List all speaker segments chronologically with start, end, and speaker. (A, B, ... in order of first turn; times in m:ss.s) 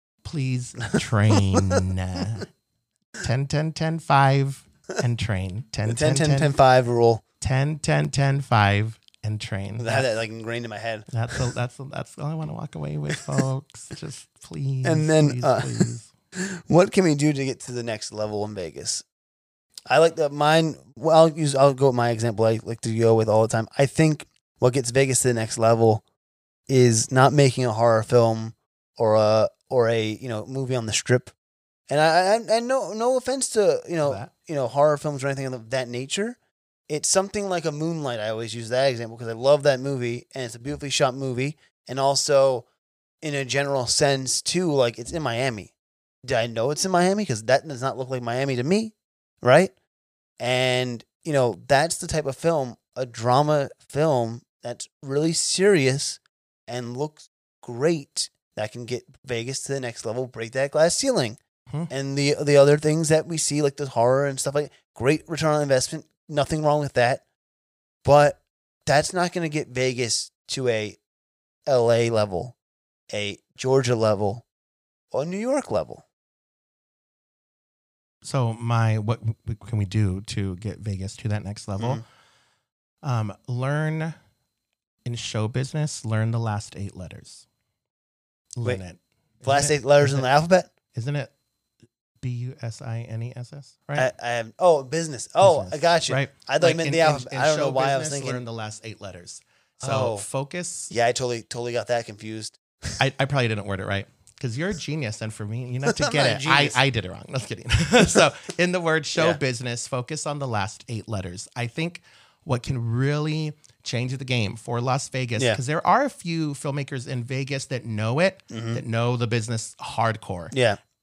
0:00.2-0:02.5 A
0:03.2-0:06.5 A
0:05.9-0:07.2 B
0:07.4-0:10.1 A
0:09.8-0:11.5 B
0:11.1-0:16.1 A
0:14.8-0:19.0 B
0:19.9-0:26.0 B
0:26.7-0:31.3 B
0:31.9-0:36.4 B
0:34.0-0:34.3 A
0:36.9-0:42.6 B
0:43.2-0:45.7 B
0:46.2-0:49.7 B
0:50.4-1:01.4 B
1:01.9-1:07.2 B
1:08.0-1:11.0 B
1:11.7-1:12.5 B
1:13.1-1:14.4 B
1:15.1-1:16.0 B
1:18.2-1:22.0 A
1:21.8-1:22.0 B
1:23.0-1:24.2 A
1:25.0-1:27.4 A
1:28.6-1:30.3 A
1:29.4-1:30.7 B
1:30.9-1:31.3 A
1:32.2-1:34.1 A
1:34.0-1:38.4 B
1:35.4-1:40.9 A
1:39.8-1:40.2 B
1:40.9-1:43.0 B
1:43.0-2:00.5 A
1:45.8-1:46.8 B
1:58.5-1:58.8 B
2:00.5-2:00.8 B